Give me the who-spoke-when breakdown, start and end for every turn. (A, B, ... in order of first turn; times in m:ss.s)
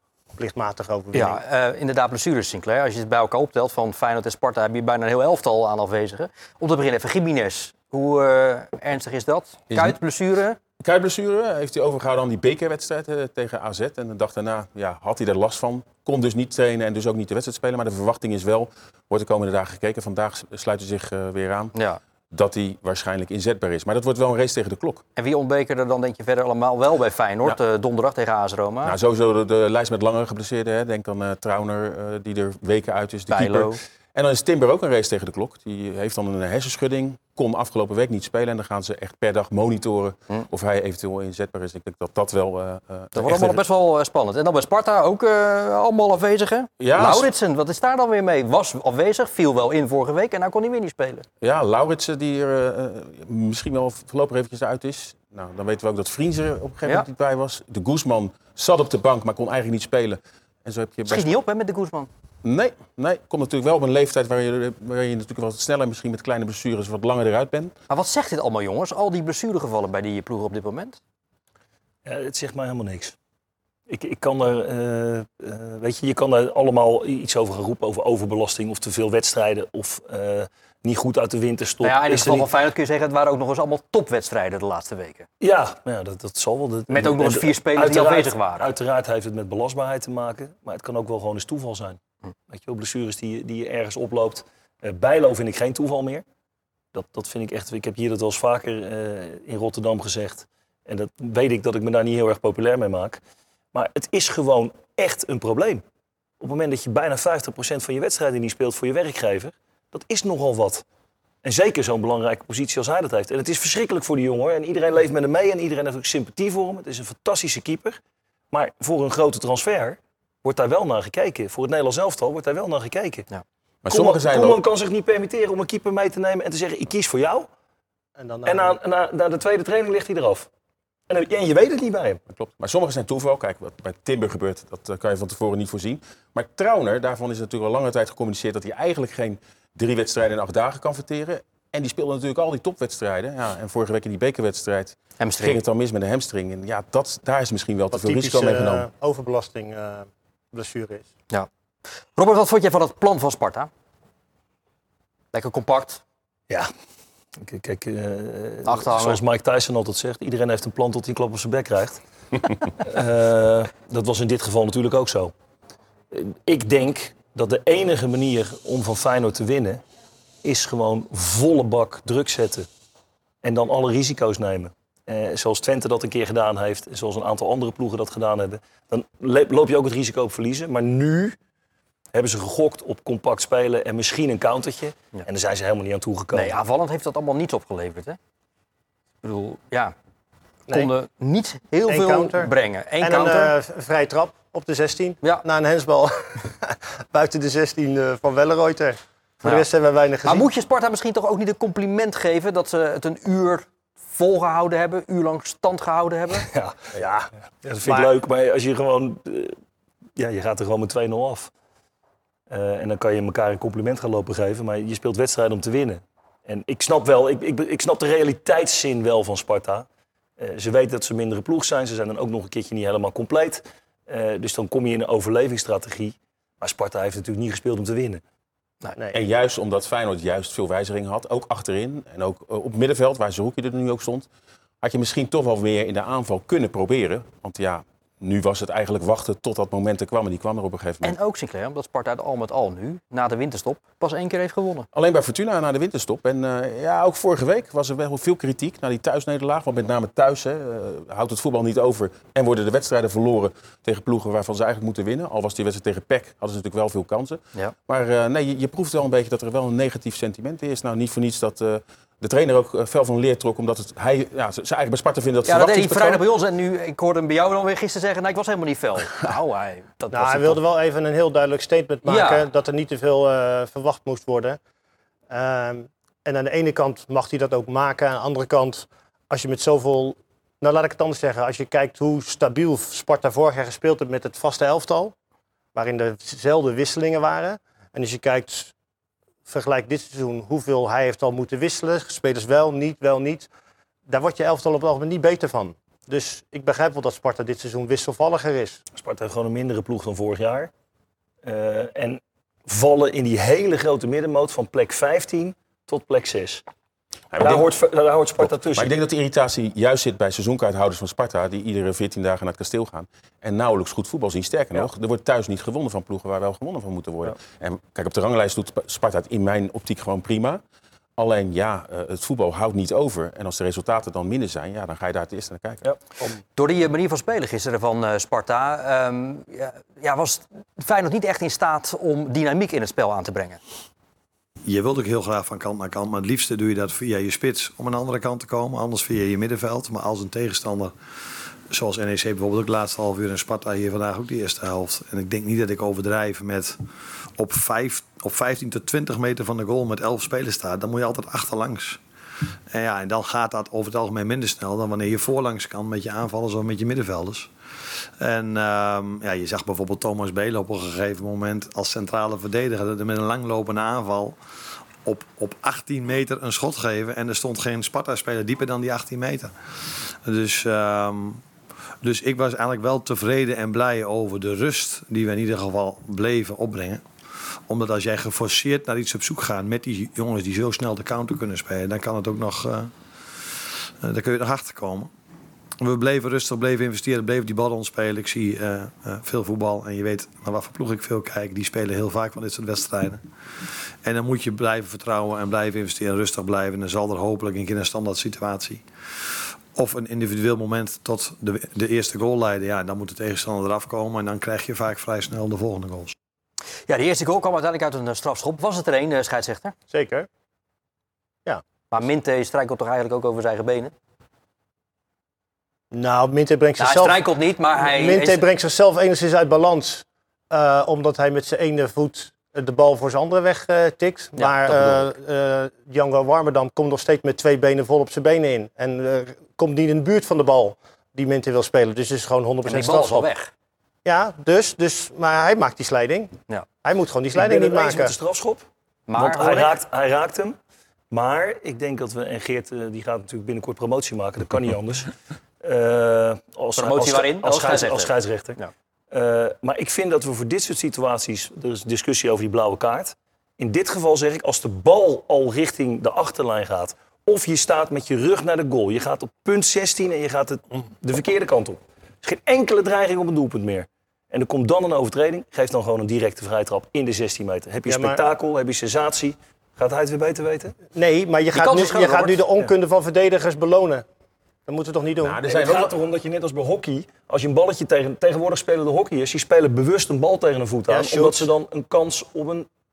0:00.4-0:01.4 A
0:01.1-0:10.6 B
0:09.7-0:10.0 C
0:10.8-0:21.8 C
0:21.8-0:22.0 B
0:22.3-0:25.0 C
0:25.2-0:29.0 B
0:28.8-0:43.6 C
0:33.3-0:33.8 B
0:43.1-0:51.2 B
0:46.8-0:47.3 C
0:51.4-1:01.3 C
1:01.1-1:02.1 B
1:02.4-1:07.7 C
1:07.9-1:11.0 B
1:12.0-1:13.2 D
1:13.9-1:22.5 D
1:21.8-1:25.3 B
1:25.4-1:36.2 D
1:26.9-1:28.7 B
1:36.9-1:43.2 D
1:43.7-1:45.8 D
1:46.4-1:50.8 D
1:51.4-1:58.0 D
1:58.5-2:03.3 D
2:03.8-2:04.6 C
2:03.9-2:07.5 D
2:08.2-2:08.8 A
2:08.5-2:10.5 D
2:11.1-2:12.2 D
2:12.3-2:28.9 C
2:25.2-2:25.6 B
2:27.9-2:31.1 A
2:32.2-2:33.7 B
2:35.3-2:36.0 B
2:37.4-2:42.0 D
2:38.7-2:39.2 B
2:42.8-2:45.3 D
2:46.1-2:49.8 D
2:50.4-2:52.7 D
2:53.4-3:01.4 D
3:02.1-3:06.5 D
3:06.3-3:08.2 B
3:09.2-3:10.0 B
3:10.7-3:13.5 B
3:11.9-3:20.5 A
3:20.2-3:26.5 B
3:26.5-3:26.8 D
3:27.0-3:27.3 A
3:27.6-3:29.6 D
3:27.8-3:28.1 A
3:30.2-3:31.5 D
3:32.5-3:39.9 D
3:40.4-3:48.2 D
3:49.1-3:54.3 C
3:54.8-4:01.2 C
4:01.0-4:04.9 B
4:04.9-4:26.2 C
4:25.4-4:30.6 B
4:30.1-4:34.6 A
4:32.0-4:32.4 B
4:35.3-4:45.1 A
4:45.8-4:48.7 A
4:49.5-4:53.5 A
4:54.1-4:58.8 A
4:59.0-5:00.7 D
5:01.4-5:06.6 D
5:07.3-5:07.7 C
5:07.4-5:08.9 D
5:08.4-5:20.6 C
5:21.2-5:25.8 C
5:26.6-5:33.6 B
5:34.6-5:41.0 E
5:41.7-5:46.8 E
5:47.4-5:52.0 E
5:52.7-5:57.5 E
5:58.2-6:04.4 E
6:05.0-6:09.5 E
6:10.2-6:11.4 E
6:12.0-6:17.0 E
6:17.7-6:22.9 E
6:24.0-6:25.1 E
6:25.8-6:33.2 E
6:34.0-6:38.8 E
6:39.8-6:46.2 E
6:46.9-6:49.8 B
6:49.9-6:50.3 A
6:51.9-6:53.9 B
6:55.9-6:57.2 A
6:56.8-6:58.4 B
6:57.8-7:13.3 A
7:04.4-7:05.1 B
7:12.6-7:13.5 B
7:14.0-7:18.1 A
7:17.4-7:20.6 D
7:19.1-7:19.8 B
7:21.1-7:25.1 D
7:25.6-7:28.6 D
7:26.8-7:28.7 B
7:29.1-7:50.8 D
7:47.9-7:48.2 A
7:50.9-7:54.0 A
7:51.5-7:52.4 B
7:54.7-7:55.4 A
7:55.2-7:55.9 C
7:55.5-8:02.7 D
8:00.9-8:01.5 A